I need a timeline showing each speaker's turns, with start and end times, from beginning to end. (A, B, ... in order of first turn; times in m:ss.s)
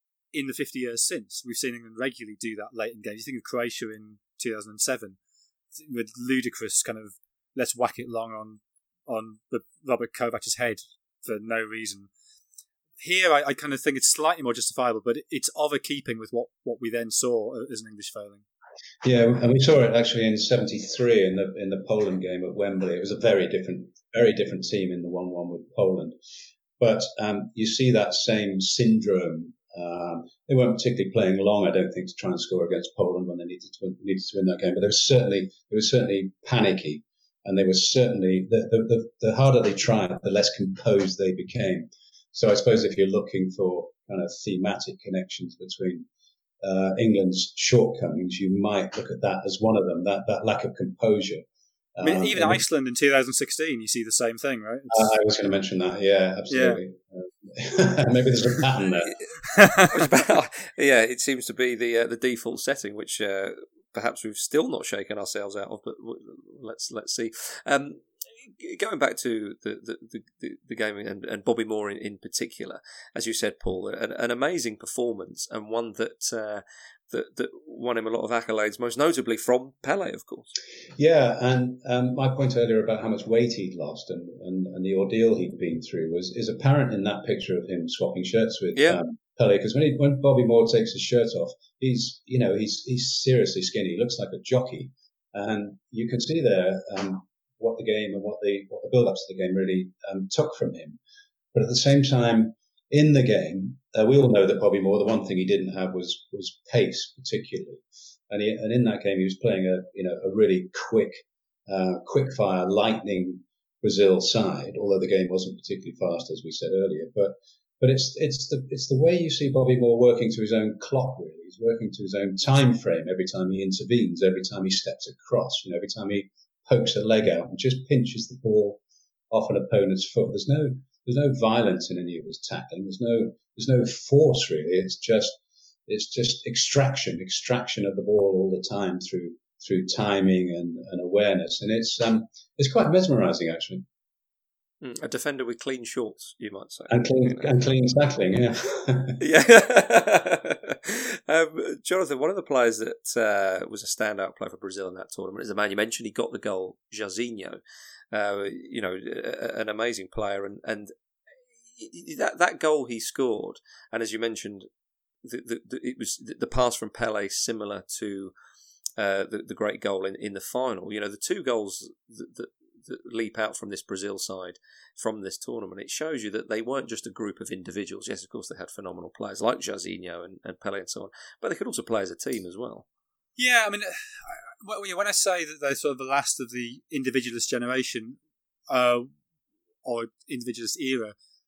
0:00.3-0:05.2 A
0:05.8-0:12.1 A
0:13.0-0:18.4 A
0:19.0-0:26.2 B
0:26.8-0:46.1 B
0:46.6-0:51.4 B
0:52.0-0:52.6 B
0:52.0-0:55.1 A
0:54.9-0:59.1 B
0:56.5-0:56.8 A
0:59.1-1:20.5 C
0:59.5-1:00.1 A
1:21.0-1:41.0 B
1:41.5-2:23.9 B
2:24.8-2:27.3 C
2:26.9-2:29.2 B
2:29.2-2:37.6 C
2:38.1-2:40.9 C
2:41.8-2:44.7 C
2:45.2-2:48.3 C
2:49.0-3:02.9 C
3:03.4-3:08.2 A
3:08.7-3:09.1 A
3:09.8-3:11.2 A